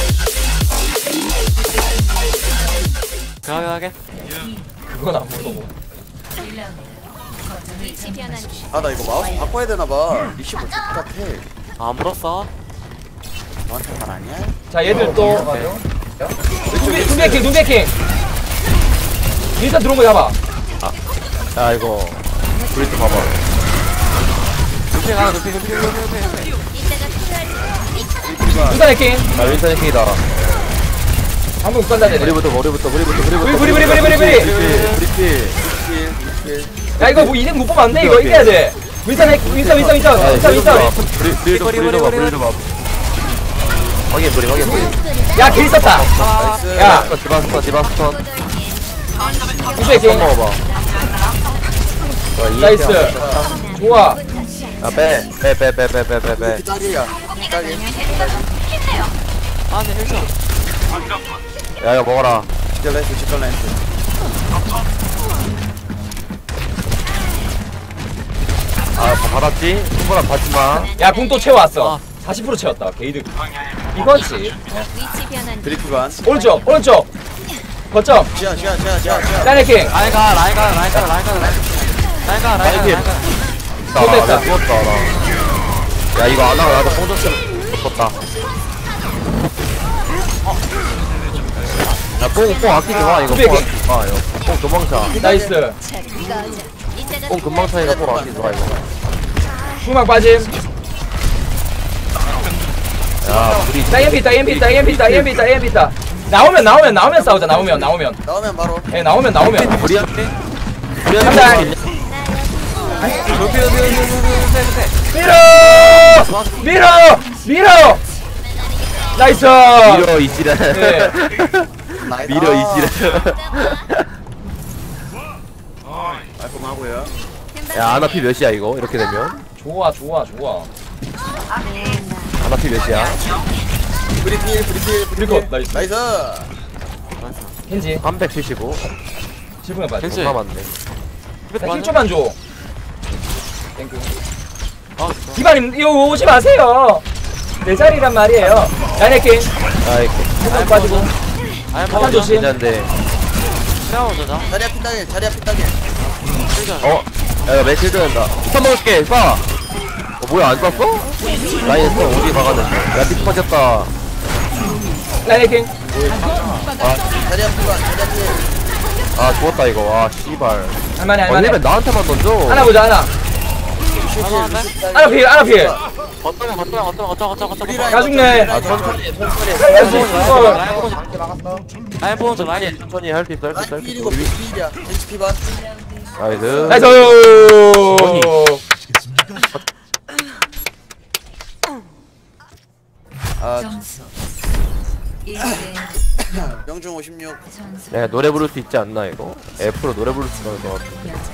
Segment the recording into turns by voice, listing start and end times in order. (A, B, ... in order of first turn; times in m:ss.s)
0:03.4-0:03.9 A
0:04.9-0:05.7 B
0:07.8-0:08.7 C
0:08.7-0:11.4 D
0:11.8-0:12.5 A
0:13.7-0:14.6 D
0:14.7-0:17.9 B
0:14.9-0:15.7 E
0:16.7-0:17.6 D
0:19.6-0:20.4 B
0:21.5-0:23.3 E
0:24.9-0:26.6 A
0:26.7-0:28.3 C
0:28.3-0:28.8 D
0:28.7-0:29.3 B
0:29.3-0:30.2 E
0:31.6-0:32.4 B
0:32.2-0:35.6 E
0:33.4-0:34.5 B
0:34.3-0:35.0 A
0:35.6-0:36.8 D
0:37.0-0:40.9 B
0:37.0-0:37.4 E
0:37.9-0:38.6 E
0:39.6-0:42.7 E
0:41.4-0:42.4 A
0:44.1-0:48.2 E
0:45.3-0:46.1 B
0:46.1-0:46.8 A
0:46.2-0:47.1 D
0:46.7-0:47.1 B
0:48.1-0:50.8 C
0:49.7-0:50.3 B
0:49.9-0:50.6 E
0:52.4-0:53.6 E
0:52.6-0:54.2 B
0:53.0-0:53.5 D
0:54.3-0:54.8 C
0:54.8-0:56.6 E
0:56.3-0:58.5 D
0:59.7-1:00.3 A
1:01.8-1:02.5 E
1:02.7-1:03.8 D
1:08.9-1:10.9 E
1:10.7-1:11.6 C
1:11.0-1:13.3 B
1:11.7-1:12.0 A
1:13.9-1:14.8 B
1:14.9-1:16.5 C
1:15.6-1:16.2 D
1:16.2-1:17.1 B
1:17.9-1:18.3 B
1:18.3-1:20.3 D
1:19.1-1:21.7 A
1:19.4-1:20.0 B
1:21.3-1:21.9 D
1:22.2-1:23.3 A
1:22.6-1:23.1 E
1:23.9-1:25.2 E
1:23.9-1:24.5 B
1:26.1-1:28.2 E
1:26.5-1:27.1 D
1:32.2-1:35.1 E
1:33.2-1:33.7 B
1:35.0-1:35.5 D
1:35.1-1:35.8 B
1:36.2-1:37.5 C
1:37.3-1:38.7 E
1:37.8-1:38.9 D
1:39.8-1:40.5 B
1:43.2-1:45.3 E
1:43.3-1:43.7 A
1:43.9-1:48.2 B
1:47.2-1:48.9 D
1:48.9-1:49.7 B
1:49.4-1:50.3 A
1:49.8-1:50.1 E
1:51.0-1:51.8 E
1:51.2-1:51.8 B
1:52.1-1:54.0 C
1:53.0-1:55.0 A
1:55.1-1:58.0 B
1:55.5-1:56.9 A
1:58.4-1:59.2 C
1:59.1-2:00.1 B
1:59.8-2:04.1 E
2:00.7-2:01.1 B
2:02.0-2:03.0 D
2:03.2-2:03.7 C
2:06.4-2:07.1 D
2:07.5-2:08.2 C
2:07.7-2:09.4 E
2:09.6-2:10.7 B
2:11.7-2:12.3 C
2:12.4-2:13.2 E
2:14.2-2:16.5 D
2:15.1-2:15.9 B
2:17.2-2:17.5 A
2:17.7-2:18.0 B
2:18.0-2:18.8 E
2:19.6-2:20.3 B
2:20.0-2:20.4 A
2:20.0-2:20.7 E
2:21.5-2:22.0 A
2:21.6-2:22.4 B
2:23.8-2:24.1 B
2:25.0-2:25.4 A
2:25.3-2:27.0 B
2:27.6-2:29.5 B
2:29.8-2:30.3 E
2:30.4-2:31.1 B
2:30.4-2:31.1 A
2:31.7-2:32.3 A
2:31.9-2:32.5 B
2:31.9-2:32.9 E
2:33.8-2:34.5 A
2:34.4-2:36.4 D
2:36.4-2:37.0 A
2:36.8-2:39.4 E
2:40.2-2:41.1 E
2:41.6-2:43.9 E
2:45.2-2:45.7 B
2:46.0-2:46.3 D
2:46.1-2:46.7 A
2:46.8-2:47.0 E
2:47.1-2:48.5 D
2:49.1-2:52.7 E
2:51.0-2:51.6 B
2:52.5-2:53.1 B
2:53.9-2:55.8 D
2:54.1-2:54.7 A
2:54.9-2:55.8 B
2:56.2-2:58.1 A
2:57.4-2:59.0 D
2:57.9-2:58.5 B
2:58.5-3:00.4 E
2:59.5-3:00.6 B
2:59.7-3:01.1 A
3:02.0-3:02.8 A
3:02.3-3:04.3 E
3:03.5-3:05.4 D
3:06.2-3:06.9 E
3:06.2-3:07.1 D
3:06.7-3:08.6 B
3:07.9-3:08.3 E
3:13.4-3:13.8 D
3:15.4-3:17.4 D
3:17.9-3:21.1 E